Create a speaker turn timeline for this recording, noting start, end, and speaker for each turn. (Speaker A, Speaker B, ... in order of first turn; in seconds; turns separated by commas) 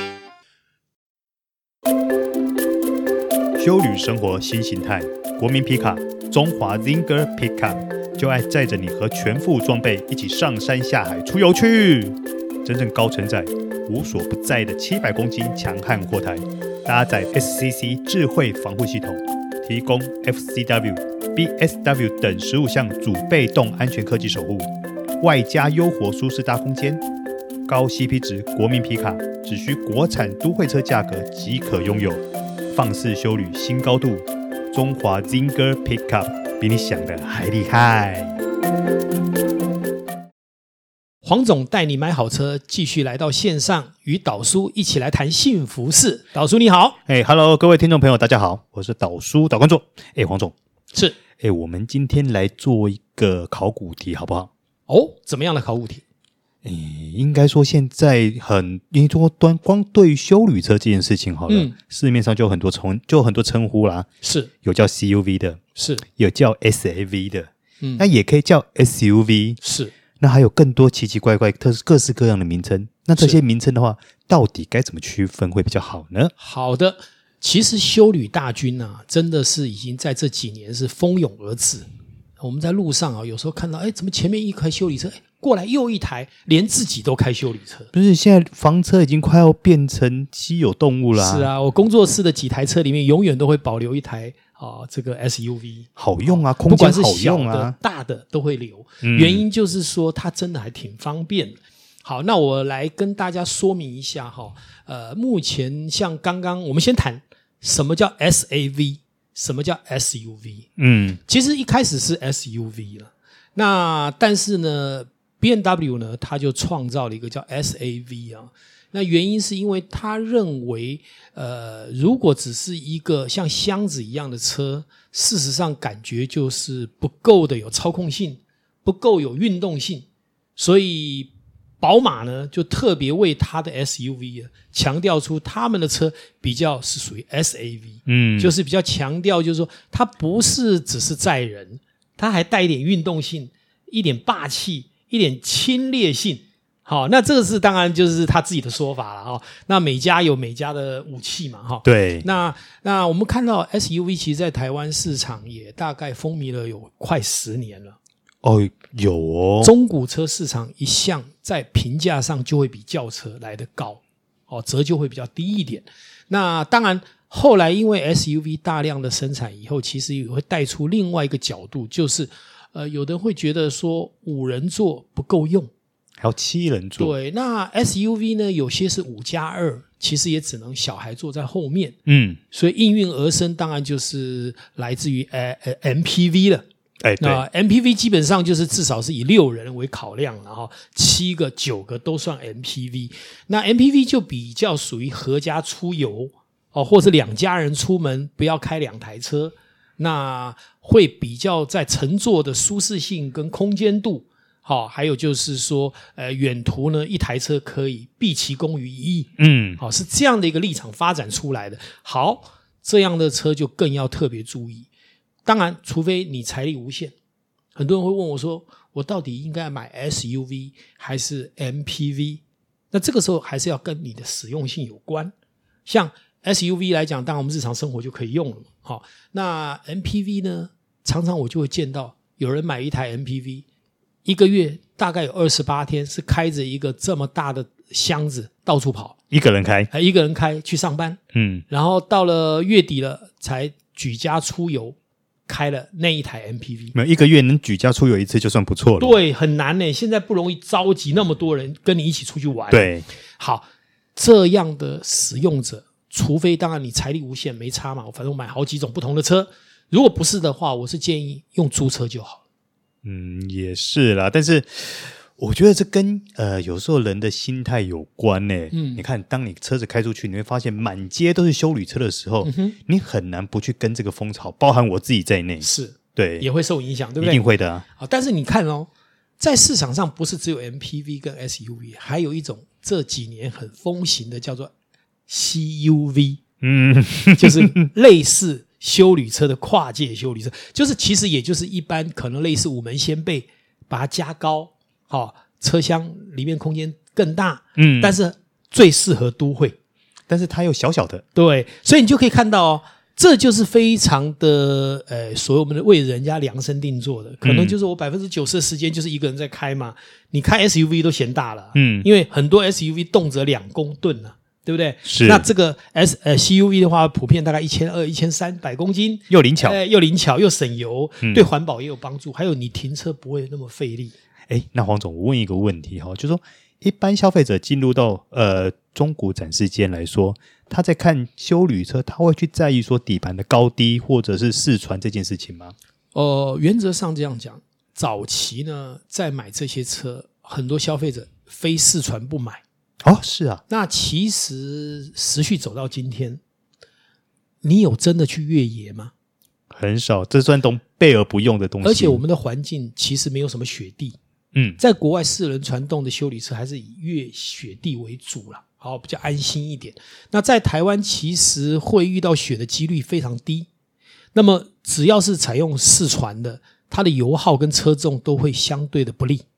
Speaker A: 3.6-24.7, Speaker A: 25.2-27.0, Speaker A: 27.7-38.4, Speaker B: 41.2-47.0, Speaker A: 47.1-50.5, Speaker A: 51.4-54.5, Speaker B: 54.9-56.0, Speaker A: 56.6-64.1, Speaker B: 61.5-61.8, Speaker B: 64.2-64.5, Speaker A: 64.6-65.6, Speaker B: 65.8-66.0, Speaker A: 66.2-69.6, Speaker B: 69.6-69.9, Speaker A: 70.2-76.3, Speaker B: 76.4-81.9, Speaker B: 82.4-87.9, Speaker A: 87.9-91.5, Speaker B: 91.2-110.7, Speaker A: 96.0-97.8, Speaker A: 99.0-99.4, Speaker A: 110.8-111.2, Speaker B: 111.3-158.0, Speaker A: 138.1-138.5, Speaker A: 151.8-152.3, Speaker A: 158.4-159.7, Speaker B: 159.6-175.7, Speaker A: 176.2-177.1, Speaker B: 177.0-182.0, Speaker A: 182.1-182.4, Speaker B: 182.5-186.6, Speaker A: 187.0-187.4, Speaker B: 187.2-214.9, Speaker A: 209.4-209.8, Speaker B: 215.4-217.1, Speaker B: 217.8-225.3, Speaker B: 225.9-233.7, Speaker B: 234.2-239.2, Speaker A: 239.3-239.9, Speaker B: 239.9-241.2, Speaker A: 241.3-241.7, Speaker B: 241.7-245.0, Speaker B: 245.5-246.9, Speaker A: 246.9-249.2, Speaker B: 249.0-262.4, Speaker A: 252.7-253.1, Speaker A: 263.0-276.5, Speaker B: 268.7-269.0, Speaker B: 272.4-272.8, Speaker B: 275.6-277.4, Speaker A: 277.2-277.9, Speaker B: 278.0-284.7, Speaker B: 285.3-286.4, Speaker A: 286.6-287.7, Speaker B: 287.4-299.8, Speaker A: 297.8-298.2, Speaker A: 300.3-301.2, Speaker B: 301.4-324.1, Speaker A: 307.4-307.8, Speaker A: 311.8-312.1, Speaker A: 315.1-315.4, Speaker A: 319.3-319.8, Speaker A: 324.5-335.7, Speaker B: 336.1-342.6, Speaker A: 343.0-343.6, Speaker B: 343.7-346.4, Speaker B: 347.6-349.1, Speaker A: 349.7-352.2, Speaker B: 351.8-354.2, Speaker A: 354.5-354.8, Speaker B: 354.8-363.7, Speaker B: 364.3-369.4